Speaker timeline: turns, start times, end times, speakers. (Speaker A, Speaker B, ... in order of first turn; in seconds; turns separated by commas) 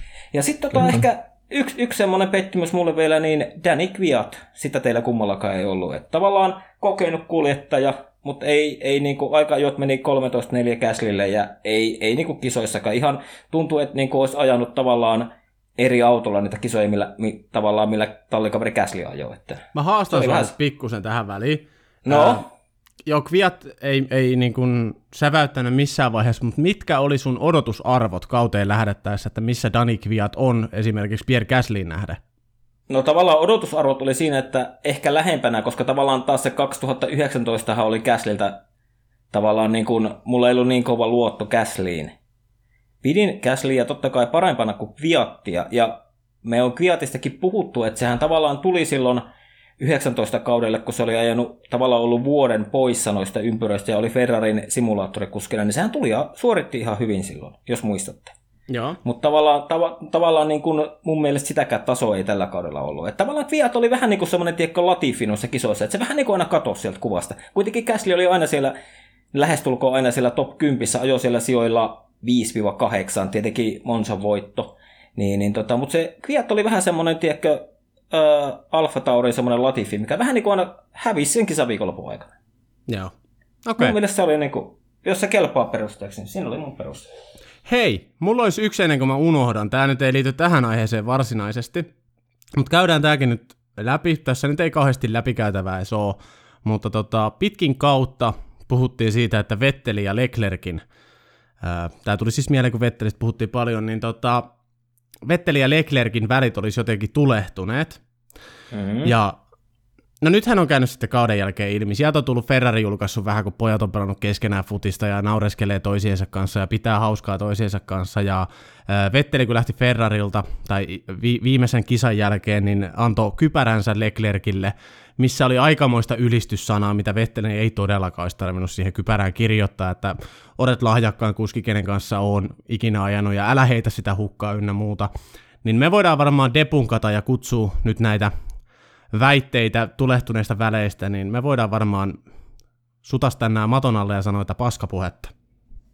Speaker A: 0.3-20.5, Speaker B: 19.7-22.4, Speaker A: 22.1-22.5, Speaker B: 23.1-32.2, Speaker A: 32.9-38.6, Speaker A: 39.3-42.1, Speaker A: 43.0-49.3, Speaker A: 49.8-58.4, Speaker B: 58.7-59.0, Speaker A: 59.0-68.7, Speaker A: 69.3-82.3, Speaker B: 83.7-84.0, Speaker A: 83.8-87.1, Speaker B: 87.7-91.9, Speaker B: 92.6-100.8, Speaker B: 101.6-104.5, Speaker B: 105.3-108.0, Speaker A: 108.7-109.1, Speaker B: 109.0-109.4, Speaker B: 110.2-135.1, Speaker B: 135.6-138.3, Speaker B: 139.1-142.2, Speaker B: 143.0-145.3